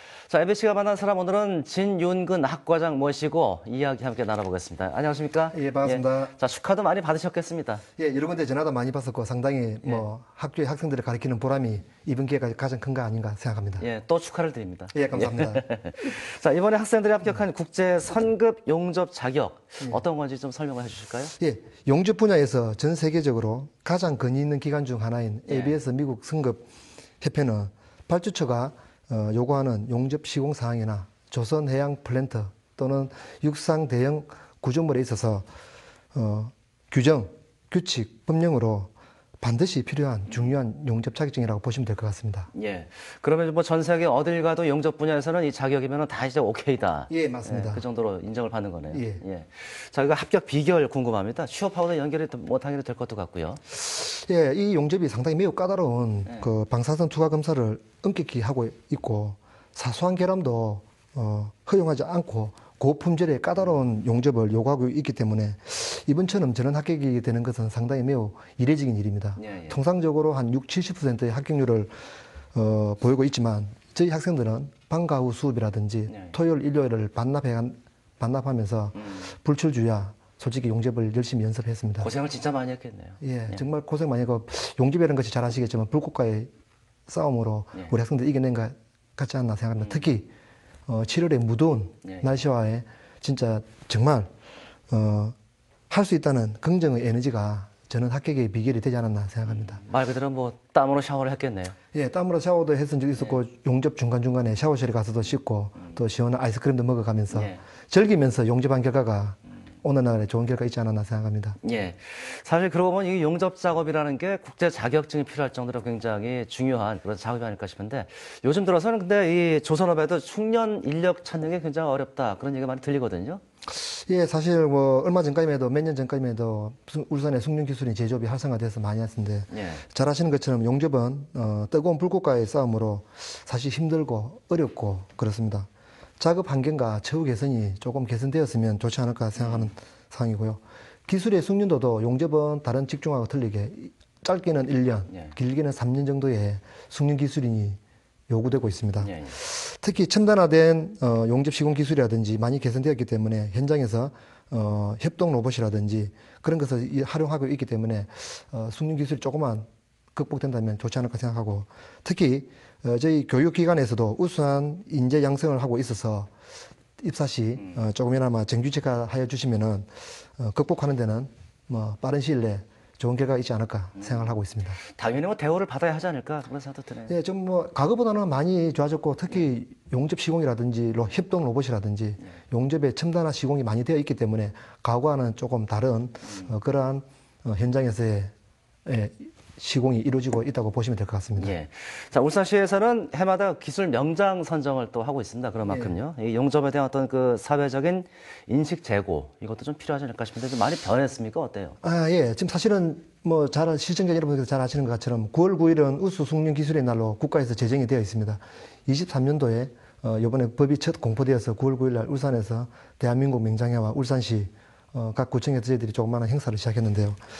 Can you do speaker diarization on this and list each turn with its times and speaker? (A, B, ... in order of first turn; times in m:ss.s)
0:00.3-0:07.8 A
0:05.5-0:06.3 B
0:08.0-0:13.9 B
0:13.8-0:21.4 A
0:14.9-0:15.6 B
0:21.4-0:26.6 B
0:25.5-0:25.8 A
0:27.2-0:35.5 B
0:36.1-0:42.5 B
0:42.5-0:53.6 A
0:47.1-0:47.8 B
0:48.9-0:49.2 B
0:53.7-1:11.9 B
1:09.4-1:09.8 A
1:12.5-1:22.1 B
1:16.1-1:16.3 A
1:19.0-1:19.2 A
1:22.0-1:23.6 A
1:23.2-1:26.5 B
1:27.1-1:30.3 B
1:30.9-1:34.3 B
1:34.9-1:35.3 B
1:35.9-1:39.8 B
1:39.4-1:41.7 A
1:41.9-1:51.6 B
1:47.3-1:47.6 A
1:51.6-2:03.4 A
2:03.7-2:15.7 B
2:09.5-2:09.8 A
2:16.2-2:46.3 B
2:19.4-2:19.7 A
2:29.0-2:29.3 A
2:47.0-2:54.8 B
2:54.9-2:57.1 A
2:57.1-3:08.3 B
3:08.9-3:11.5 B
3:11.4-3:21.8 A
3:15.7-3:16.0 B
3:21.8-3:37.2 B